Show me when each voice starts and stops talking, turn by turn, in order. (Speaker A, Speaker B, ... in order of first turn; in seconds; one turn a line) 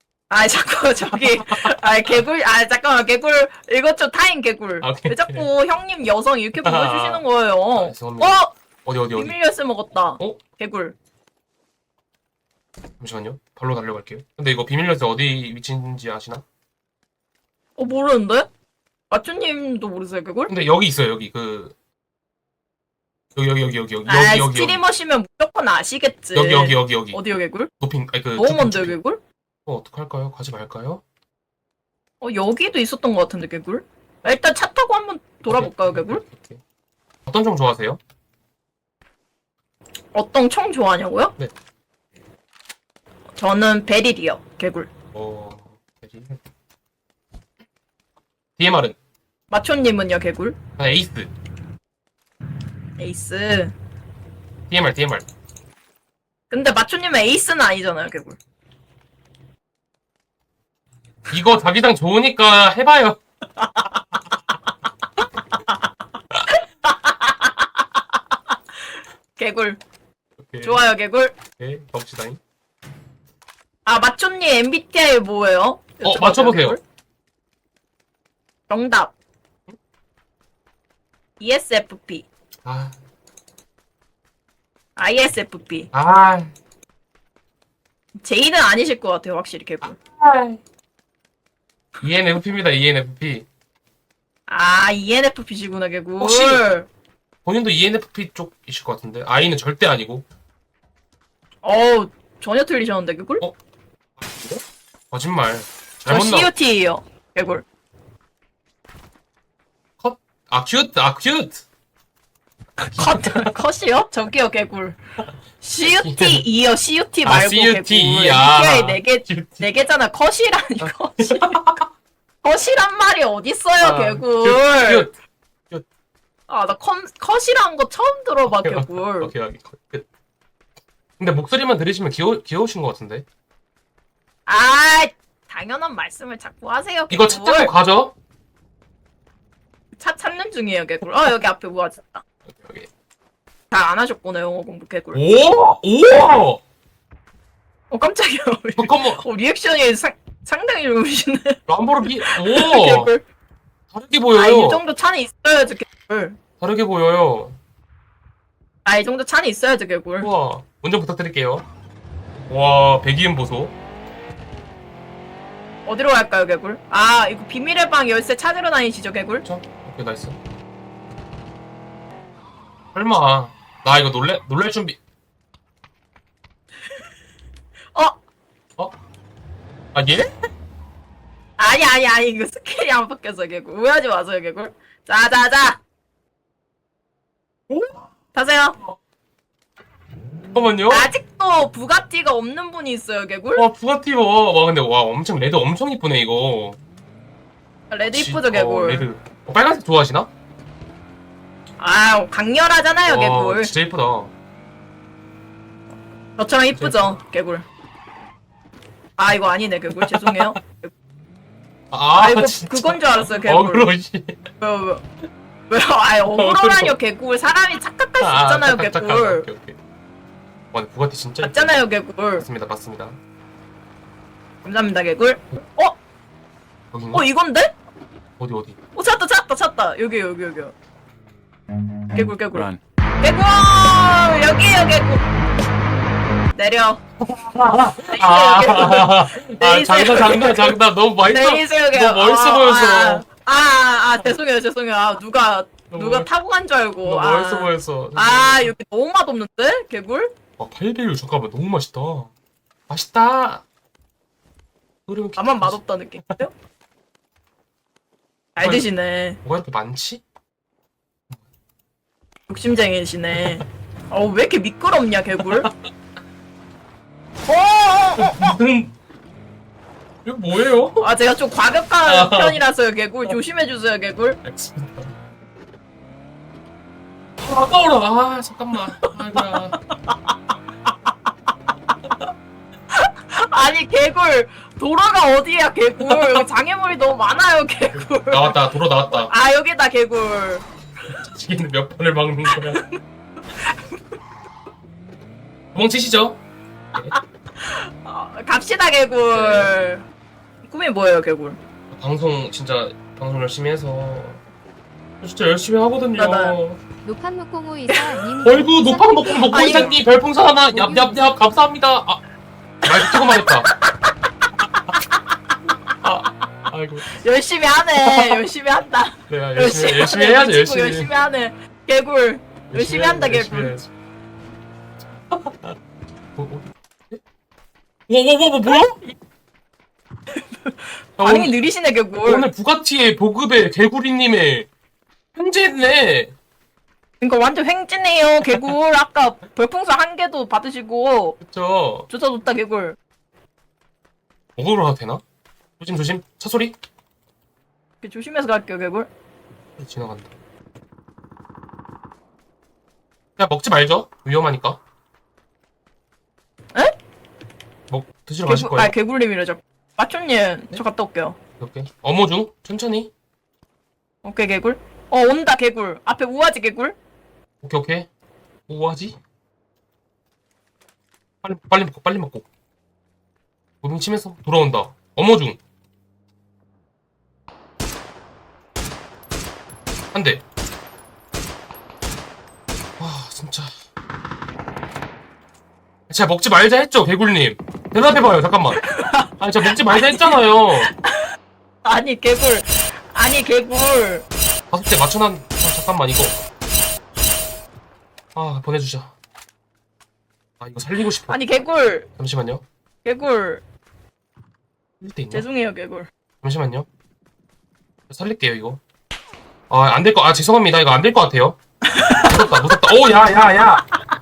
Speaker A: 0.3-8.5
Speaker B: 4.8-5.4
Speaker B: 6.6-7.2
Speaker B: 7.8-9.4
Speaker A: 9.2-10.9
Speaker B: 13.0-16.4
Speaker A: 17.8-18.5
Speaker A: 19.1-20.5
Speaker B: 20.5-21.7
Speaker B: 23.4-24.8
Speaker A: 24.1-27.7
Speaker B: 26.3-27.2
Speaker B: 27.8-28.9
Speaker A: 28.4-29.2
Speaker B: 29.6-31.0
Speaker A: 32.2-36.2
Speaker B: 35.5-36.6
Speaker B: 37.3-38.0
Speaker A: 40.1-41.3
Speaker A: 43.4-44.9
Speaker B: 45.1-46.4
Speaker B: 48.6-49.0
Speaker A: 49.5-50.6
Speaker B: 50.8-51.3
Speaker A: 53.0-53.7
Speaker B: 54.7-55.2
Speaker A: 56.5-58.4
Speaker B: 61.3-63.2
Speaker A: 63.6-64.0
Speaker A: 65.5-65.8
Speaker A: 66.5-68.5
Speaker A: 69.4-69.8
Speaker B: 70.4-70.8
Speaker A: 70.6-71.3
Speaker B: 71.6-72.4
Speaker A: 73.8-76.8
Speaker B: 76.0-76.8
Speaker A: 78.7-79.1
Speaker A: 81.4-82.3
Speaker B: 82.6-82.9
Speaker A: 85.0-85.9
Speaker B: 85.9-86.5
Speaker A: 88.2-90.0
Speaker B: 89.8-90.6
Speaker B: 92.0-93.5
Speaker A: 94.5-96.9
Speaker B: 96.2-96.7
Speaker B: 97.4-100.2
Speaker A: 101.6-103.4
Speaker B: 104.2-106.5
Speaker A: 106.1-107.6
Speaker B: 110.0-111.6
Speaker B: 112.8-113.5
Speaker A: 112.9-115.0
Speaker A: 115.6-121.6
Speaker B: 115.8-116.4
Speaker B: 117.2-119.6
Speaker B: 120.8-121.9
Speaker A: 122.4-125.1
Speaker B: 123.8-125.1
Speaker A: 126.5-129.3
Speaker B: 128.4-130.0
Speaker B: 131.2-133.2
Speaker A: 134.5-137.7
Speaker B: 137.1-138.1
Speaker A: 140.0-142.2
Speaker B: 142.5-142.9
Speaker A: 143.7-145.2
Speaker B: 145.1-146.6
Speaker A: 147.9-153.2
Speaker B: 148.8-149.2
Speaker B: 151.7-153.1
Speaker B: 153.9-154.8
Speaker A: 154.3-156.4
Speaker B: 156.6-157.6
Speaker A: 158.8-160.3
Speaker B: 160.2-161.7
Speaker B: 162.5-163.7
Speaker A: 165.8-169.4
Speaker B: 169.4-170.4
Speaker B: 172.9-175.0
Speaker B: 179.9-180.3
Speaker A: 181.6-185.8
Speaker B: 187.7-188.0
Speaker A: 188.3-188.8
Speaker B: 190.5-191.1
Speaker A: 190.9-193.6
Speaker B: 193.6-196.8
Speaker A: 197.9-199.1
Speaker B: 198.1-200.3
Speaker A: 201.8-203.7
Speaker B: 203.0-204.3
Speaker A: 206.4-207.6
Speaker B: 206.8-207.2
Speaker A: 209.2-210.9
Speaker B: 209.9-210.5
Speaker B: 211.9-214.4
Speaker A: 212.2-213.9
Speaker A: 214.6-215.0
Speaker A: 215.7-219.4
Speaker B: 216.3-216.9
Speaker B: 218.2-219.8
Speaker B: 220.7-221.8
Speaker A: 221.4-222.4
Speaker B: 222.4-223.2
Speaker A: 224.6-226.0
Speaker B: 226.9-227.3
Speaker A: 227.1-227.7
Speaker B: 228.4-228.8
Speaker A: 228.9-230.7
Speaker A: 232.1-235.2
Speaker A: 236.5-237.0
Speaker B: 237.2-243.2
Speaker A: 238.1-240.7
Speaker A: 241.2-250.3
Speaker B: 245.9-246.2
Speaker B: 247.0-248.7
Speaker B: 250.6-252.3
Speaker B: 252.9-253.6
Speaker B: 255.1-255.8
Speaker A: 255.4-256.5
Speaker A: 258.6-259.4
Speaker B: 258.6-258.9
Speaker B: 259.4-260.2
Speaker A: 262.5-265.7
Speaker A: 267.4-268.6
Speaker B: 268.2-268.9
Speaker B: 270.2-271.1
Speaker A: 271.0-274.4
Speaker B: 272.1-272.6
Speaker B: 274.4-275.1
Speaker B: 277.4-279.8
Speaker A: 280.1-280.3
Speaker A: 282.9-288.6
Speaker B: 288.3-289.3
Speaker A: 289.1-290.7
Speaker B: 291.1-292.8
Speaker A: 292.5-293.0
Speaker A: 293.6-294.0
Speaker B: 295.7-296.4
Speaker A: 297.6-300.1
Speaker B: 299.3-299.7
Speaker A: 300.7-301.6
Speaker B: 301.9-304.4
Speaker B: 305.2-306.8
Speaker A: 306.2-306.6
Speaker C: 307.0-309.8
Speaker B: 308.4-312.2
Speaker A: 309.4-310.0
Speaker B: 312.8-313.7
Speaker A: 313.1-314.1
Speaker B: 316.0-317.2
Speaker A: 317.1-323.7
Speaker B: 318.0-318.4
Speaker B: 319.3-321.1
Speaker B: 322.7-323.9
Speaker B: 325.3-325.7
Speaker B: 326.4-327.2
Speaker B: 328.1-329.0
Speaker A: 330.3-332.4
Speaker B: 331.2-331.6
Speaker B: 332.2-334.7
Speaker B: 335.4-336.3
Speaker A: 337.2-341.4
Speaker B: 341.4-342.1
Speaker A: 342.1-342.9
Speaker B: 344.6-345.2
Speaker B: 345.8-346.8
Speaker A: 348.0-349.1
Speaker B: 349.8-350.3
Speaker B: 353.4-354.8
Speaker B: 357.9-358.9
Speaker A: 358.4-361.4
Speaker B: 361.6-363.1
Speaker A: 364.2-366.9
Speaker B: 367.6-368.1
Speaker B: 368.7-369.2
Speaker B: 371.4-372.5
Speaker B: 373.8-375.6
Speaker B: 380.1-380.4
Speaker B: 383.0-383.7
Speaker B: 386.1-388.9
Speaker A: 388.7-391.2
Speaker B: 389.4-390.9
Speaker A: 391.8-394.2
Speaker B: 394.7-396.4
Speaker B: 398.3-399.1
Speaker B: 400.6-401.4
Speaker A: 401.3-402.1
Speaker B: 402.2-402.6
Speaker A: 403.0-403.6
Speaker B: 405.0-405.4
Speaker A: 405.3-406.1
Speaker B: 406.4-406.9
Speaker B: 408.1-408.8
Speaker B: 409.7-411.6
Speaker A: 411.9-412.5
Speaker B: 412.1-413.9